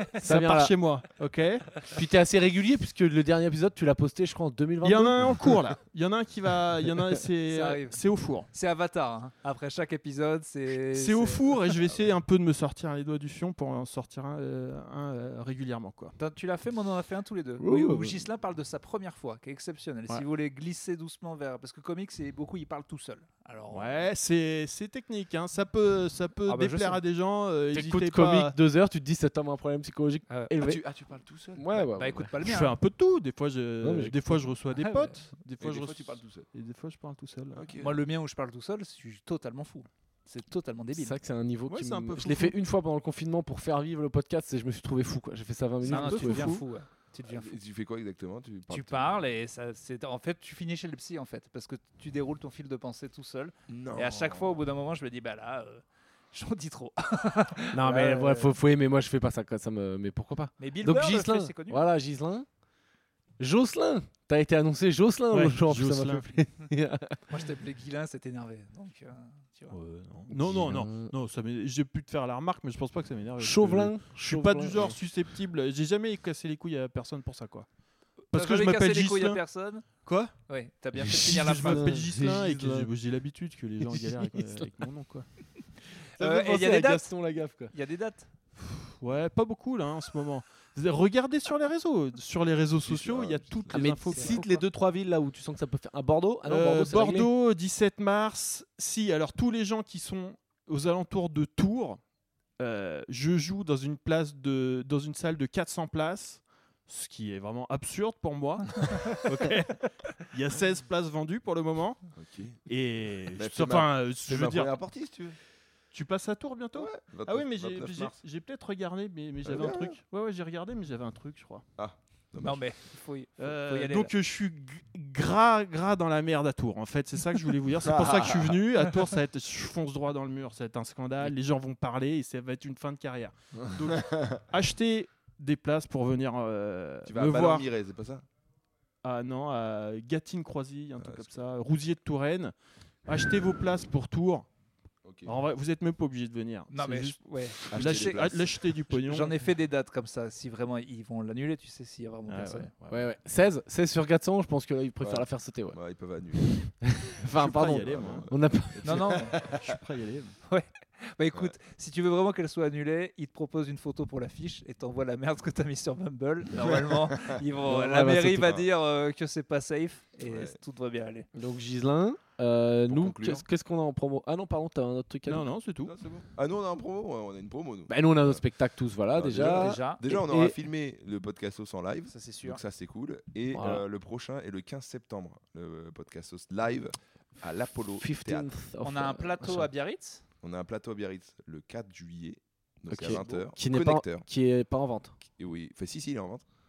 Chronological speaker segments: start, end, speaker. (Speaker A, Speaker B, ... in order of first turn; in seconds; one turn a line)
Speaker A: 0.2-1.8
Speaker B: 0.2-0.7
Speaker B: 1.9-5.4
Speaker A: 4.8-8.5
Speaker C: 7.5-8.0
Speaker C: 8.5-11.8
Speaker A: 10.9-16.1
Speaker C: 16.2-24.0
Speaker B: 17.6-18.2
Speaker A: 23.7-28.6
Speaker C: 26.5-27.0
Speaker B: 27.7-30.8
Speaker C: 30.3-30.6
Speaker D: 30.6-31.7
Speaker B: 31.6-32.3
Speaker C: 31.7-32.7
Speaker A: 32.4-37.6
Speaker B: 33.8-34.4
Speaker C: 34.8-35.2
Speaker D: 35.6-36.5
Speaker D: 37.5-38.0
Speaker C: 37.8-41.2
Speaker B: 41.0-46.6
Speaker A: 41.7-42.5
Speaker D: 45.8-46.6
Speaker C: 45.8-47.5
Speaker D: 47.3-49.2
Speaker C: 48.7-58.6
Speaker D: 53.7-54.6
Speaker B: 57.7-62.5
Speaker C: 60.6-61.9
Speaker B: 63.4-67.2
Speaker A: 65.3-66.5
Speaker C: 67.3-69.8
Speaker A: 69.7-77.7
Speaker B: 70.3-71.1
Speaker B: 73.4-75.0
Speaker C: 78.3-79.9
Speaker A: 78.3-79.4
Speaker A: 80.0-80.3
Speaker C: 80.5-82.0
Speaker B: 81.0-82.9
Speaker A: 81.1-85.3
Speaker B: 83.9-84.7
Speaker B: 86.2-87.7
Speaker C: 86.2-87.1
Speaker C: 87.7-88.3
Speaker A: 88.6-94.6
Speaker D: 92.8-93.9
Speaker B: 93.7-97.3
Speaker C: 94.1-94.4
Speaker A: 96.5-102.0
Speaker A: 102.6-112.1
Speaker C: 108.8-109.5
Speaker D: 112.2-112.6
Speaker A: 112.7-114.8
Speaker D: 113.3-115.4
Speaker A: 115.9-121.6
Speaker D: 116.8-118.2
Speaker D: 119.5-120.0
Speaker D: 121.8-122.7
Speaker C: 122.4-124.1
Speaker A: 123.4-137.7
Speaker D: 127.8-128.6
Speaker D: 133.6-134.4
Speaker D: 137.1-138.2
Speaker A: 139.0-142.5
Speaker D: 141.0-141.3
Speaker A: 143.1-144.5
Speaker D: 145.0-145.3
Speaker A: 145.2-149.3
Speaker C: 146.7-148.3
Speaker D: 147.7-148.6
Speaker C: 148.9-152.7
Speaker A: 152.3-153.1
Speaker B: 152.9-155.8
Speaker D: 155.0-156.7
Speaker B: 156.4-159.2
Speaker A: 157.3-158.3
Speaker D: 157.6-159.8
Speaker C: 158.8-159.4
Speaker A: 159.2-160.4
Speaker C: 160.4-171.3
Speaker D: 166.7-167.4
Speaker B: 167.6-168.6
Speaker D: 170.2-170.6
Speaker B: 171.3-175.5
Speaker D: 172.9-173.4
Speaker A: 175.3-175.9
Speaker D: 175.8-178.4
Speaker B: 177.9-180.6
Speaker D: 179.1-188.5
Speaker C: 179.3-180.0
Speaker C: 182.1-182.6
Speaker B: 183.5-183.8
Speaker B: 188.0-189.7
Speaker C: 188.8-190.2
Speaker D: 190.4-194.3
Speaker B: 192.9-195.2
Speaker C: 193.0-193.4
Speaker D: 195.2-196.4